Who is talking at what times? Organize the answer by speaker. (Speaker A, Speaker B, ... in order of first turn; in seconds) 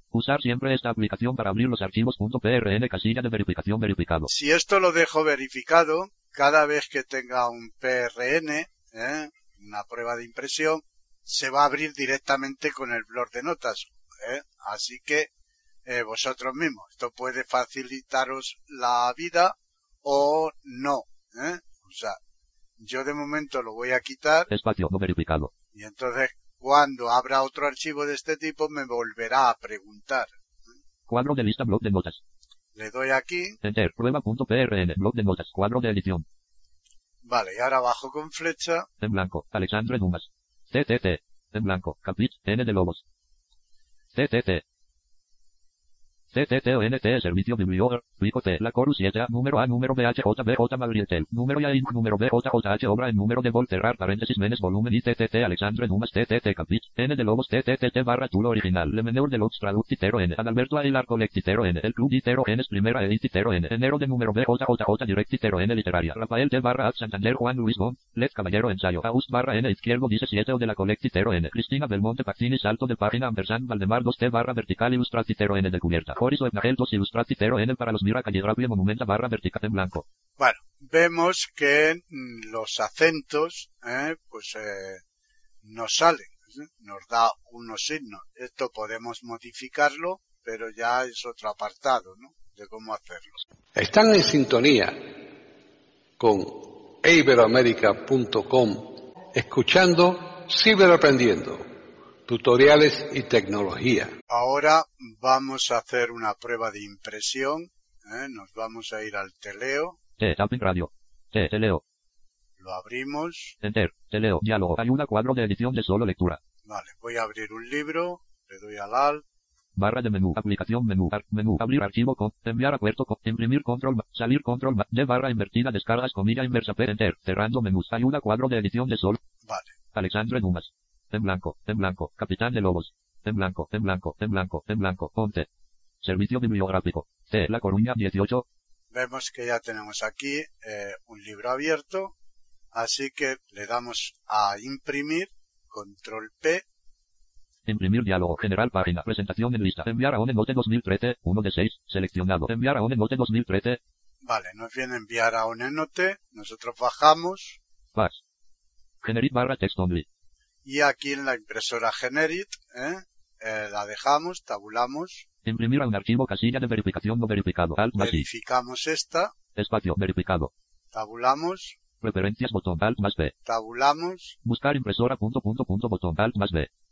Speaker A: 0.1-4.3, 24.5-25.5, 31.1-32.2, 33.6-36.2, 39.0-43.0, 44.1-44.6, 46.3-80.0, 110.2-111.8, 113.6-116.4, 119.8-129.2, 129.9-135.5, 136.0-138.4, 147.7-153.8, 157.9-158.2, 159.0-160.1, 165.4-168.3, 169.5-170.5, 172.0-173.3, 174.4-176.7
Speaker B: 4.3-15.3, 15.8-22.2, 22.8-24.5, 25.7-30.3, 32.7-33.6, 37.2-38.9, 80.4-85.0, 85.6-93.4, 104.3-110.0, 112.6-113.5, 116.6-119.2, 129.4-129.7, 138.9-142.1, 142.7-146.6, 154.2-157.6, 160.6-165.2, 167.9-169.3, 170.9-171.8, 173.4-174.3
Speaker C: 93.8-95.0, 96.2-101.6, 102.2-104.1